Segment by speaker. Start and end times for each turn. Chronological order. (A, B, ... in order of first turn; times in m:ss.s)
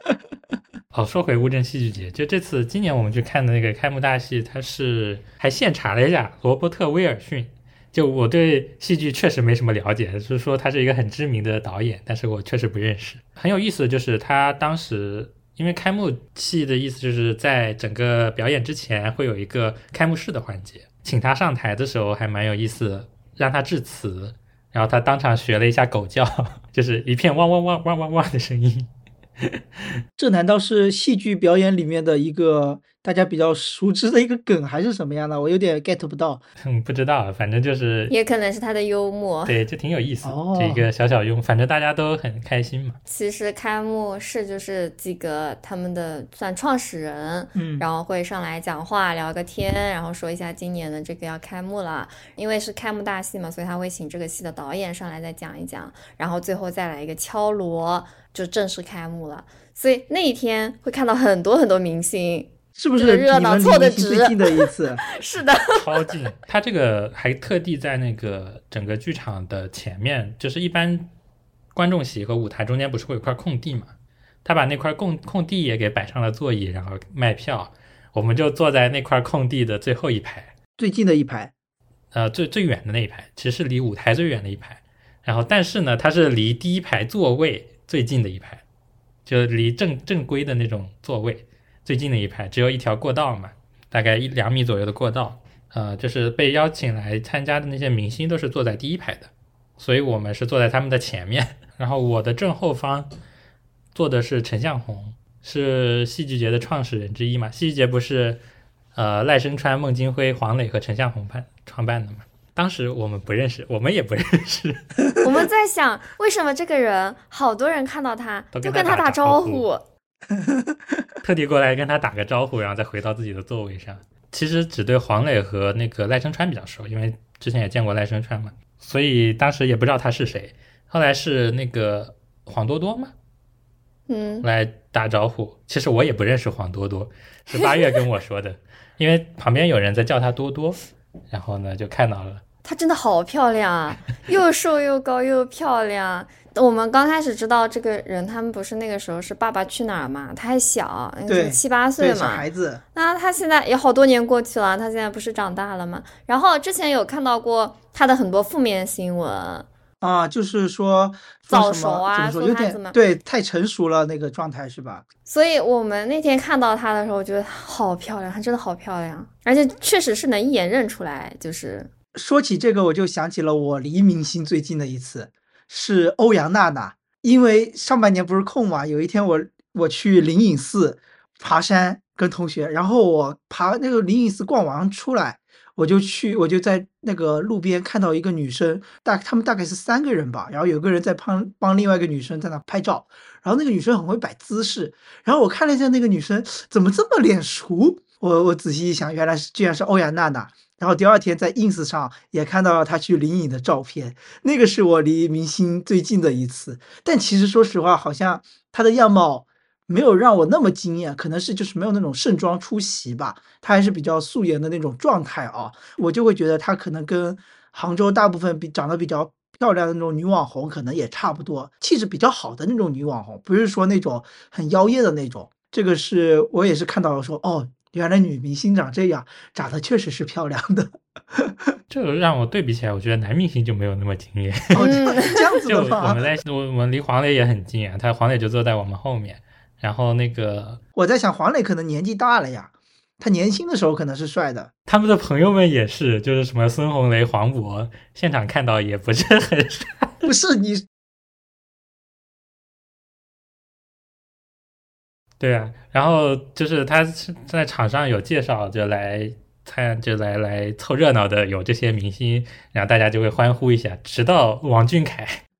0:00.9-0:28.9 A
0:30.2-0:36.4 B
0:36.6-0:38.1 A
0:38.1-0:39.6 C
0:39.4-0:43.0 A
0:40.2-0:40.8 B
0:43.1-1:06.1 C
0:47.5-0:47.8 B
1:02.8-1:05.0 B
1:05.6-1:11.1 A
1:11.7-1:13.9 A
1:14.4-1:20.5 A
1:20.8-1:21.5 B
1:22.1-1:28.6 A
1:29.2-1:43.1 A
1:43.9-1:48.4 A
1:48.9-1:55.0 A
1:55.2-1:59.8 C
1:58.5-1:59.6 A
2:00.4-2:00.7 B
2:01.2-2:13.1 A
2:14.1-2:14.4 C
2:14.4-2:22.4 A
2:22.6-2:39.7 C
2:31.3-2:32.8 B
2:40.0-2:45.0 B
2:41.5-2:43.0 C
2:45.2-2:51.9 C
2:52.1-3:51.7 B
3:51.9-3:54.9 A
3:54.7-3:56.2 B
3:54.8-3:55.4 C
3:55.6-4:00.8 A
4:01.0-4:04.7 B
4:04.9-4:10.2 A
4:10.2-4:10.9 B
4:15.4-4:25.4 A